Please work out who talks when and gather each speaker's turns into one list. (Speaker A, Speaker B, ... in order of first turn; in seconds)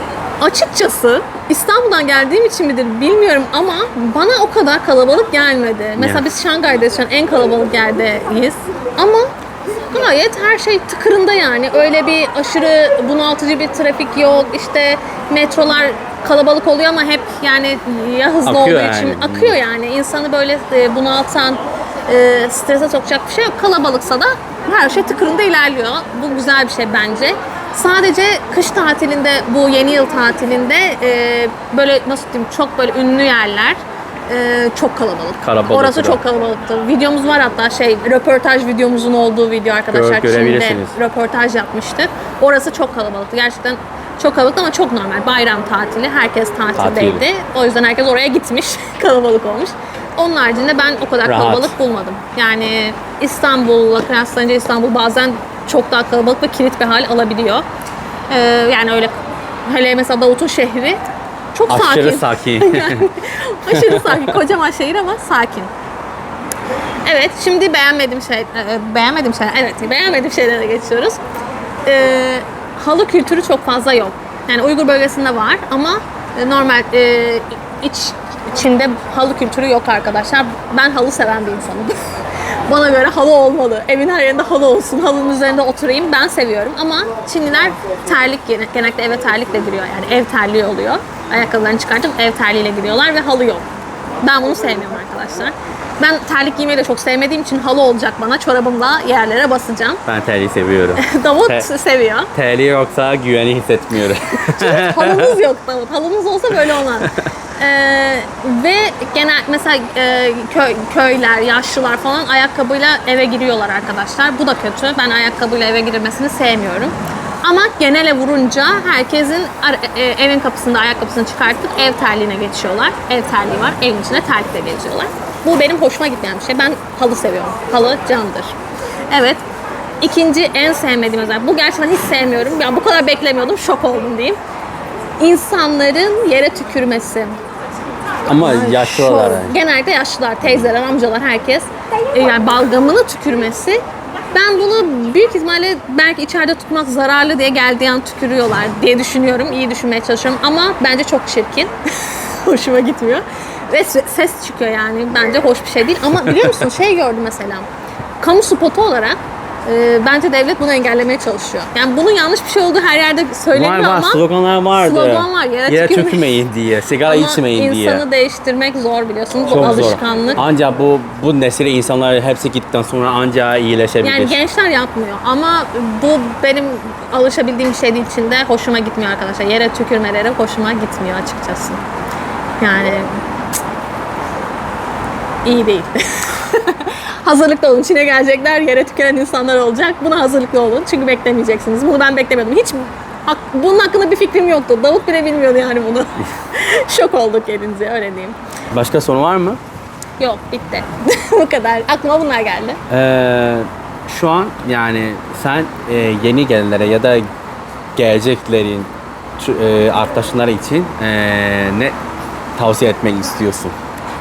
Speaker A: 0.4-9.3, 9.9-57.7, 58.3-65.7, 67.1-71.2, 71.8-82.0, 82.7-93.7, 94.2-100.0, 101.0-102.3, 104.5-128.6, 129.1-129.4, 130.0-134.4, 135.2-137.4, 138.3-143.8, 144.3-157.7, 158.2-166.4, 167.1-170.4, 174.0-181.8, 182.6-183.2, 185.4-198.4, 200.2-202.8
Speaker B: 6.0-6.2, 18.5-19.6, 35.4-36.2, 39.9-41.0, 46.8-47.2, 51.2-51.7, 61.7-63.1, 63.7-64.3, 100.1-101.7, 102.3-105.4, 107.0-107.3, 138.3-139.6, 140.4-140.7, 156.3-156.6, 163.5-168.0, 169.5-174.4, 198.7-199.6, 202.9-207.2, 208.0-211.9, 212.6-213.7